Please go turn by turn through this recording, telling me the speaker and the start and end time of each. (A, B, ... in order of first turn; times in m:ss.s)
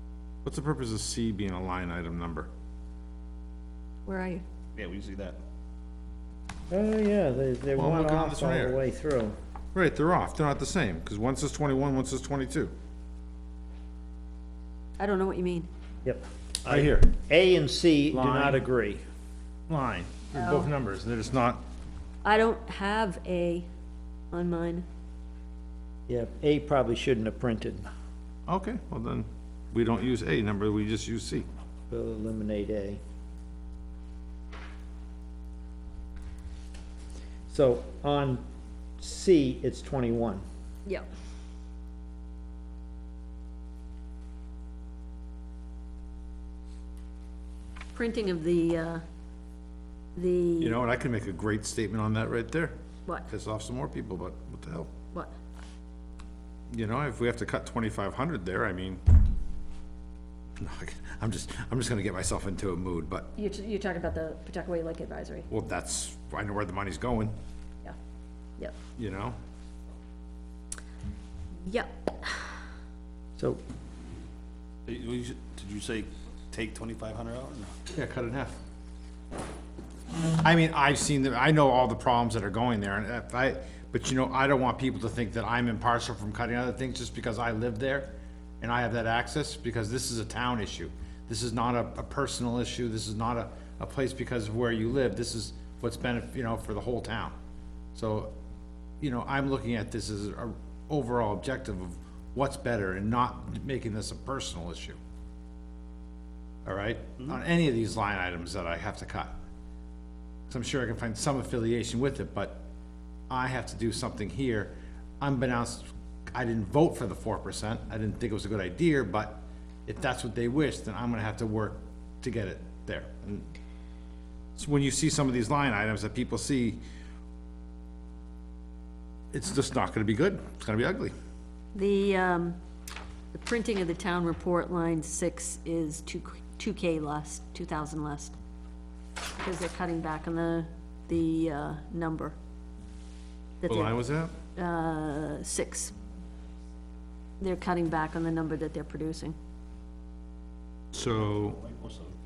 0:00.4-0:02.5 A
0:04.0-0:04.4 B
0:04.8-0:05.4 C
0:06.7-0:09.4 D
0:07.7-0:08.8 A
0:09.7-0:12.7 A
0:15.0-0:15.7 B
0:16.0-0:19.0 D
0:16.6-0:17.2 A
0:18.1-0:18.7 A
0:19.7-0:21.6 A
0:20.4-0:20.7 B
0:22.2-0:23.6 B
0:24.3-0:24.8 B
0:26.1-0:27.8 D
0:28.5-0:31.4 A
0:31.9-0:33.0 D
0:37.5-0:38.4 D
0:39.0-0:40.4 D
0:47.9-0:49.0 B
0:50.1-0:50.8 B
0:50.6-0:52.8 A
0:53.3-0:54.9 A
0:56.7-0:59.2 A
1:00.6-1:03.3 A
1:03.4-1:05.5 B
1:05.5-1:07.3 A
1:09.0-1:09.4 A
1:11.6-1:12.6 B
1:14.8-1:17.7 C
1:17.9-1:18.6 A
1:20.4-1:37.3 A
1:37.9-1:38.3 A
1:39.0-1:45.0 A
1:46.6-1:49.4 A
1:50.5-1:52.6 A
1:53.3-2:03.5 A
2:04.6-2:06.8 A
2:09.3-2:11.1 A
2:11.7-2:12.6 B
2:13.3-2:18.3 B
2:19.4-2:22.3 B
2:23.6-2:24.0 B
2:23.7-2:24.3 A
2:24.6-2:25.9 B
2:27.4-2:29.4 B
2:30.9-2:31.6 A
2:30.9-2:32.1 C